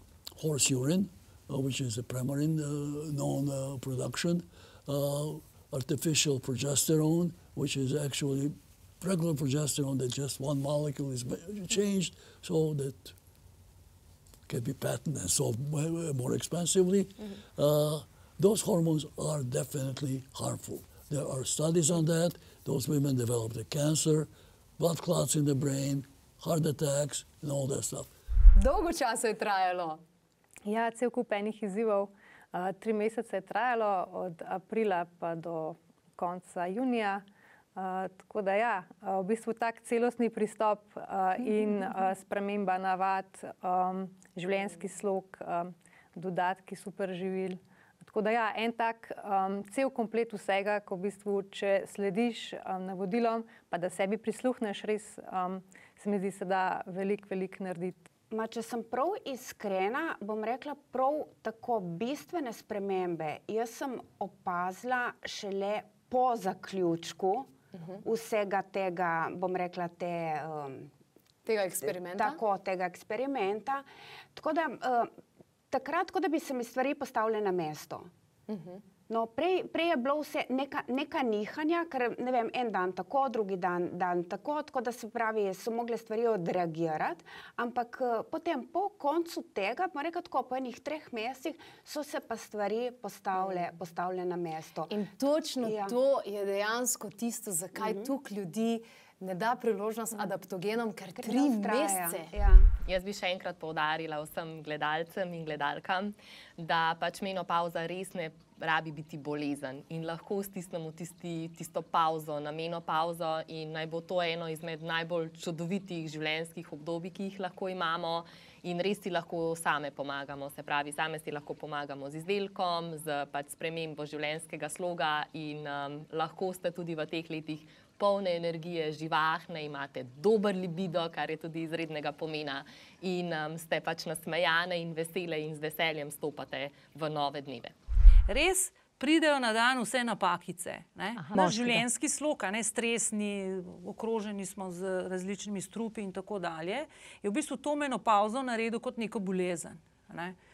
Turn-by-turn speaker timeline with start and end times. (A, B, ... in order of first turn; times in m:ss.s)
0:00.4-0:13.1 A
0:14.5-0:24.3 A
0:24.8-0:28.1 A
0:28.6-0:30.0 B
0:30.7-0:37.2 C
0:37.8-0:58.0 C
0:58.3-1:07.5 D
1:08.0-1:10.9 D
1:11.5-1:12.4 B
1:11.8-1:15.1 D
1:15.7-1:18.1 D
1:18.5-1:18.8 B
1:19.1-1:35.0 D
1:33.4-1:33.7 B
1:34.9-1:42.4 B
1:35.6-1:36.0 D
1:37.8-1:38.1 D
1:41.2-1:42.7 D
1:42.8-2:17.7 E
2:18.3-2:30.4 F
2:21.2-2:21.6 E